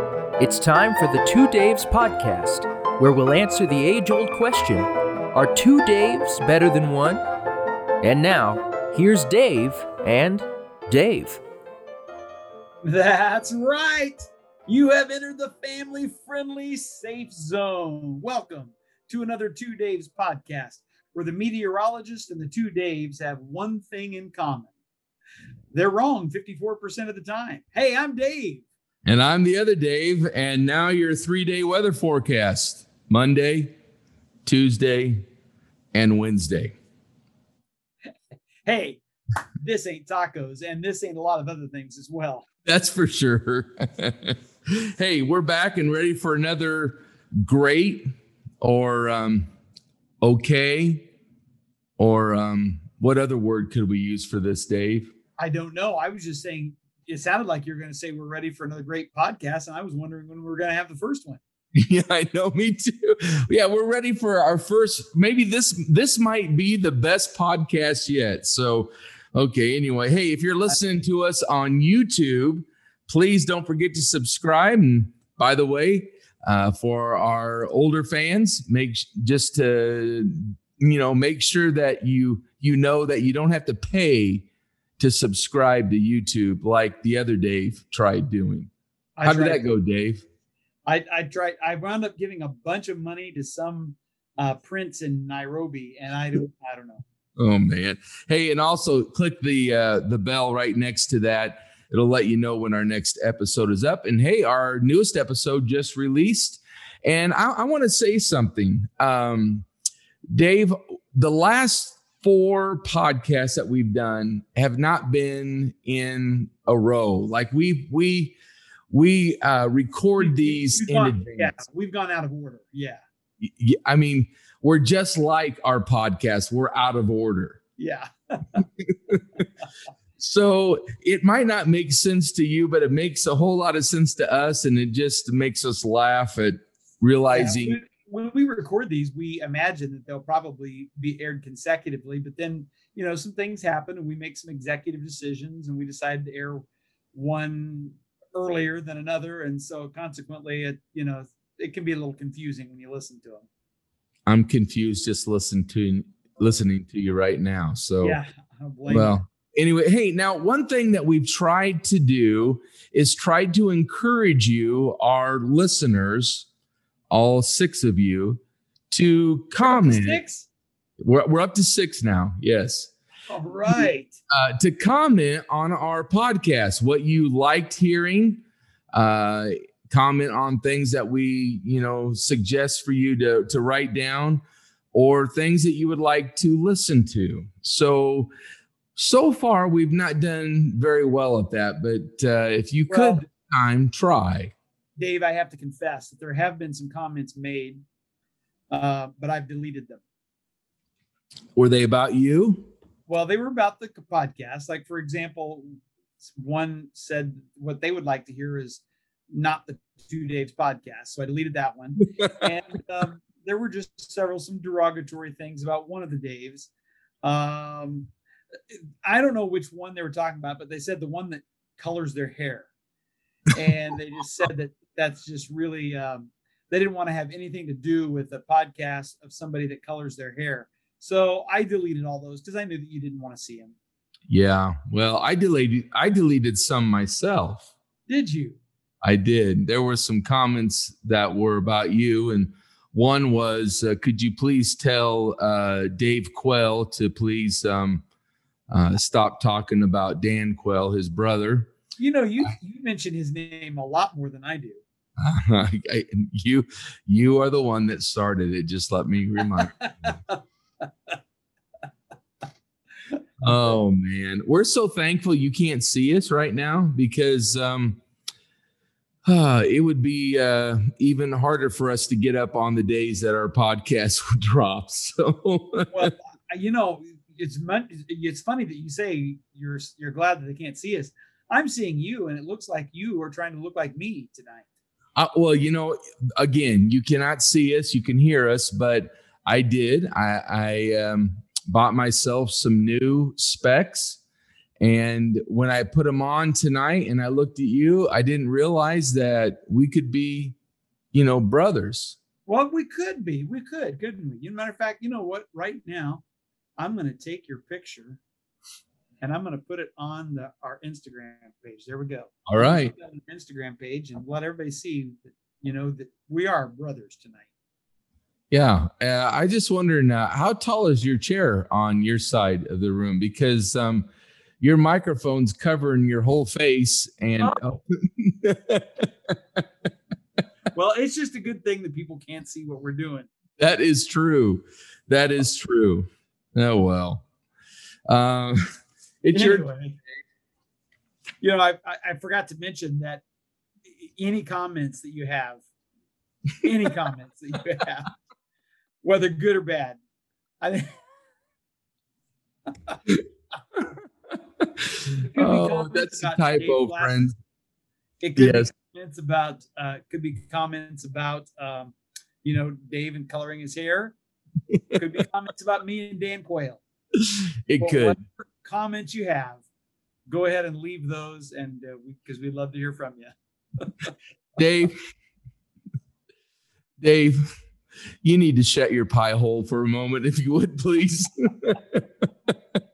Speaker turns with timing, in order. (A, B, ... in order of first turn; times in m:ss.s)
0:00.4-0:07.2 A
0:08.0-0:11.4 A
0:12.8-0:24.7 B
0:25.7-0:28.6 B
0:29.0-0:33.8 C
0:34.4-0:35.3 C
0:35.9-0:36.8 C
0:38.6-0:39.0 B
0:39.6-0:42.5 B
0:42.6-0:48.1 C
0:48.6-0:49.5 C
0:50.2-0:51.1 C
0:52.0-0:55.1 C
0:55.4-1:01.4 B
1:01.7-1:24.5 C
1:25.0-1:28.7 C
1:29.2-1:29.6 B
1:29.2-1:30.2 C
1:30.9-1:37.0 B
1:37.4-1:49.7 C
1:50.3-1:58.4 C
1:58.9-2:01.6 C
2:00.2-2:03.0 B
2:03.4-2:07.6 C
2:07.8-2:08.7 B
2:08.8-2:09.2 C
2:10.2-2:17.8 C
2:17.3-2:33.5 B
2:34.3-2:38.2 C
2:38.0-2:39.2 B
2:38.9-2:46.5 C
2:47.1-2:50.2 C
2:49.6-2:50.5 B
2:51.0-2:52.9 C
2:53.3-2:54.2 B
2:53.7-2:58.4 C
2:58.9-3:04.4 C
3:04.9-3:08.3 C
3:09.0-3:14.5 C
3:12.9-3:13.3 B
3:15.0-3:17.8 B
3:18.7-3:20.0 B
3:21.6-3:22.7 C
3:23.1-3:36.7 B
3:37.2-3:38.1 B
3:38.7-3:42.7 B
3:43.5-3:53.8 B
3:54.3-3:57.7 C
3:58.1-3:58.6 B
3:59.0-4:08.0 C
4:08.7-4:11.7 C
4:12.0-4:14.8 B
4:15.2-4:19.8 C
4:19.6-4:20.9 B
4:23.4-4:28.0 C
4:29.2-4:36.1 C
4:35.9-4:44.7 B
4:45.2-4:54.2 C
4:54.8-5:00.6 C
5:01.1-5:02.2 C
5:02.5-5:06.2 B
5:06.8-5:08.2 B
5:09.2-5:17.4 B
5:12.5-5:12.9 C
5:18.5-5:24.1 C
5:24.6-5:29.6 C
5:30.7-5:33.3 B
5:33.6-5:37.2 C
5:38.1-5:38.6 C
5:39.2-5:39.7 C
5:39.3-5:40.0 B
5:41.4-5:43.2 B
5:43.9-5:45.6 B
5:46.6-5:48.1 B
5:49.0-5:50.0 B
5:50.6-5:51.0 B
5:54.6-5:57.3 C
5:55.2-5:57.3 B
5:58.2-6:04.2 B
5:58.4-5:58.7 C
6:04.9-6:06.8 B
6:07.2-6:08.2 C
6:07.8-6:09.6 B
6:10.3-6:14.1 B
6:14.6-6:14.9 C
6:17.0-6:17.4 C
6:18.2-6:22.0 C